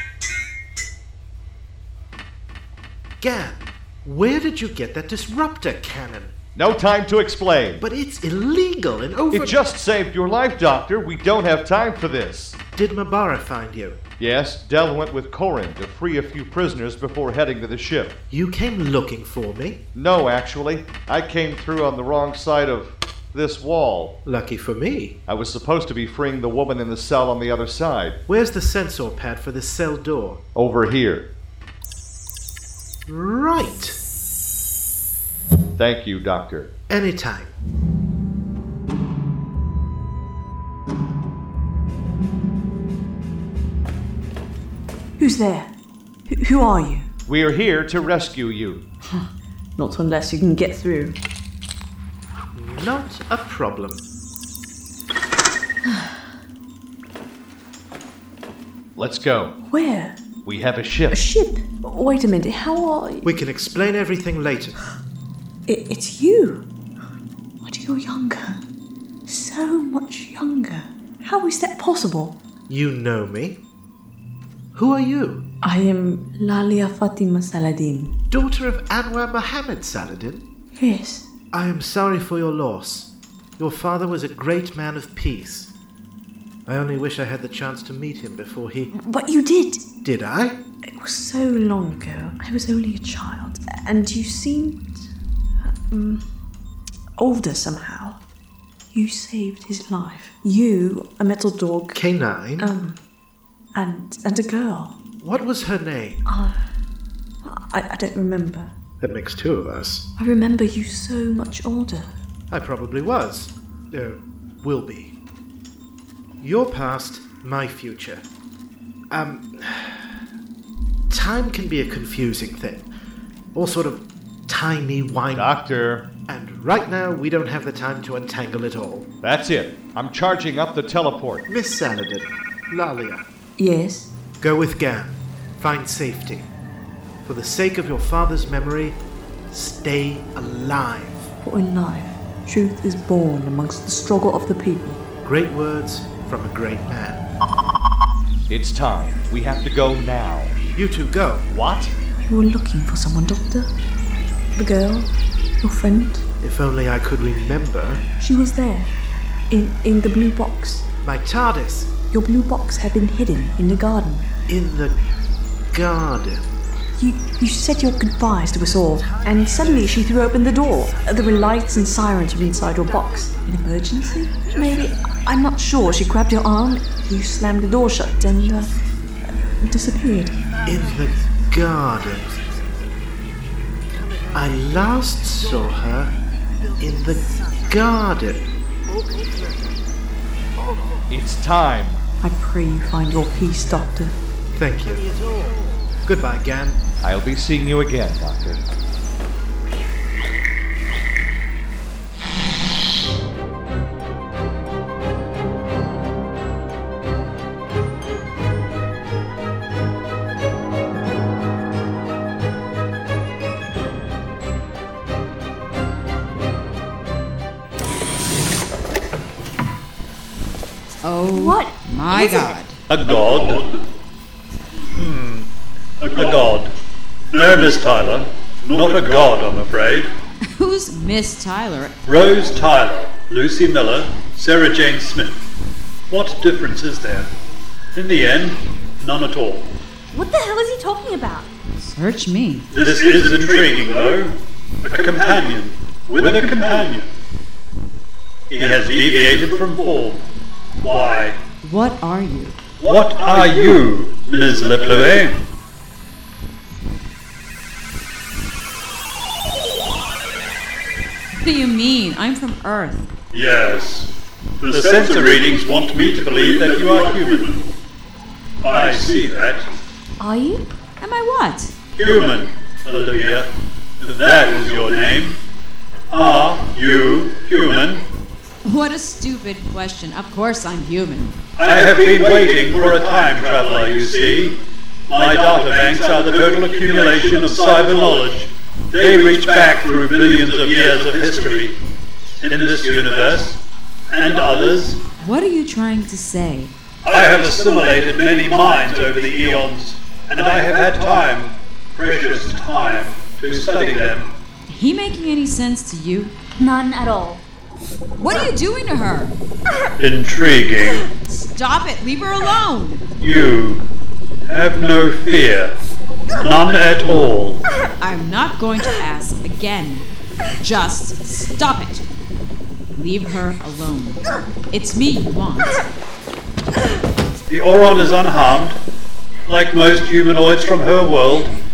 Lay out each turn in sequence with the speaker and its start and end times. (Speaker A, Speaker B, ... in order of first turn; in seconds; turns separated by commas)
Speaker A: 3.2-6.3, Speaker B: 6.5-7.8, Speaker A: 7.8-9.6, Speaker B: 9.3-12.6, Speaker A: 12.7-14.0, Speaker B: 14.2-18.1, Speaker A: 18.3-19.8, Speaker B: 19.9-24.1, Speaker A: 24.2-25.1, Speaker B: 25.3-28.2, Speaker A: 28.3-30.4, Speaker B: 30.5-31.2, Speaker A: 33.1-34.0, Speaker B: 35.8-36.7, Speaker A: 36.9-37.5, Speaker C: 45.2-45.7, Speaker C: 46.3-47.1, Speaker B: 47.3-48.8, Speaker C: 49.1-51.1, Speaker A: 52.5-54.0, Speaker C: 55.8-56.2, Speaker B: 59.0-59.5, Speaker C: 59.7-60.2, Speaker B: 60.4-61.2, Speaker C: 61.1-63.3, Speaker A: 63.2-64.8, Speaker C: 65.7-66.6, Speaker C: 67.6-68.6, Speaker C: 69.3-72.3, Speaker A: 72.7-73.6, Speaker A: 74.7-75.4, Speaker C: 75.6-78.1, Speaker A: 78.3-80.4, Speaker C: 80.8-81.2, Speaker A: 81.5-85.7, Speaker A: 86.7-88.9, Speaker C: 88.9-89.8, Speaker A: 90.0-90.6, Speaker C: 91.0-95.1, Speaker C: 95.6-96.2, Speaker C: 97.2-98.2, Speaker C: 98.9-102.0, Speaker A: 101.9-102.7, Speaker C: 102.6-103.0, Speaker C: 103.7-105.0, Speaker A: 105.2-106.2, Speaker C: 106.2-106.6, Speaker C: 107.4-108.7, Speaker A: 109.0-110.0, Speaker C: 110.2-112.1, Speaker A: 112.5-115.1, Speaker A: 116.4-118.2, Speaker A: 119.1-120.1, Speaker A: 121.1-122.9, Speaker A: 123.5-125.5, Speaker B: 125.3-126.1, Speaker A: 126.2-129.1, Speaker B: 129.2-131.4, Speaker A: 131.5-133.2, Speaker C: 133.6-134.1, Speaker A: 134.4-136.5, Speaker A: 137.2-139.0, Speaker A: 139.5-141.3, Speaker C: 141.4-145.0, Speaker A: 145.2-147.2, Speaker B: 148.5-150.6, Speaker A: 150.7-151.5, Speaker B: 151.5-151.9, Speaker C: 152.2-153.7, Speaker C: 154.5-156.2, Speaker A: 156.4-158.0, Speaker C: 158.2-158.9, Speaker C: 159.5-160.8, Speaker A: 161.0-162.0, Speaker C: 162.1-164.3, Speaker A: 164.5-164.9, Speaker A: 165.7-166.5, Speaker C: 167.0-178.7, Speaker A: 169.0-170.0, Speaker C: 179.6-180.4, Speaker A: 180.6-182.5, Speaker A: 184.3-186.1, Speaker A: 186.8-189.8, Speaker A: 190.6-191.0, Speaker B: 191.1-192.0, Speaker C: 192.2-194.2, Speaker A: 194.5-196.8, Speaker B: 197.0-198.6, Speaker D: 221.0-222.8, Speaker E: 221.3-222.5, Speaker F: 222.9-223.7, Speaker F: 224.9-225.4, Speaker F: 226.0-226.7, Speaker F: 227.3-230.1, Speaker D: 230.5-231.9, Speaker F: 232.1-235.4, Speaker F: 236.1-237.3, Speaker F: 237.9-239.7, Speaker E: 240.1-241.5, Speaker D: 241.8-242.7, Speaker F: 242.7-244.3, Speaker F: 244.8-247.1, Speaker F: 248.5-250.2, Speaker F: 250.8-251.3, Speaker D: 251.6-252.6, Speaker F: 252.8-255.4, Speaker D: 261.3-263.1, Speaker F: 263.3-264.1, Speaker F: 264.6-267.6, Speaker F: 268.6-269.6, Speaker E: 270.2-270.6, Speaker D: 271.0-271.7, Speaker F: 271.9-273.5, Speaker F: 274.0-275.3, Speaker F: 276.1-278.0, Speaker D: 278.6-281.4, Speaker F: 281.6-284.5, Speaker F: 285.1-291.7, Speaker F: 292.4-293.6, Speaker F: 294.1-295.0, Speaker D: 295.2-296.7, Speaker F: 297.1-304.3, Speaker D: 304.7-306.3, Speaker E: 306.6-307.4, Speaker D: 308.2-309.3, Speaker F: 310.0-311.1, Speaker D: 311.2-313.0, Speaker F: 313.2-313.8, Speaker F: 314.5-315.7, Speaker F: 316.4-317.6, Speaker D: 318.0-320.1, Speaker D: 320.6-322.0, Speaker D: 322.9-325.8, Speaker F: 327.5-328.8, Speaker F: 329.5-331.5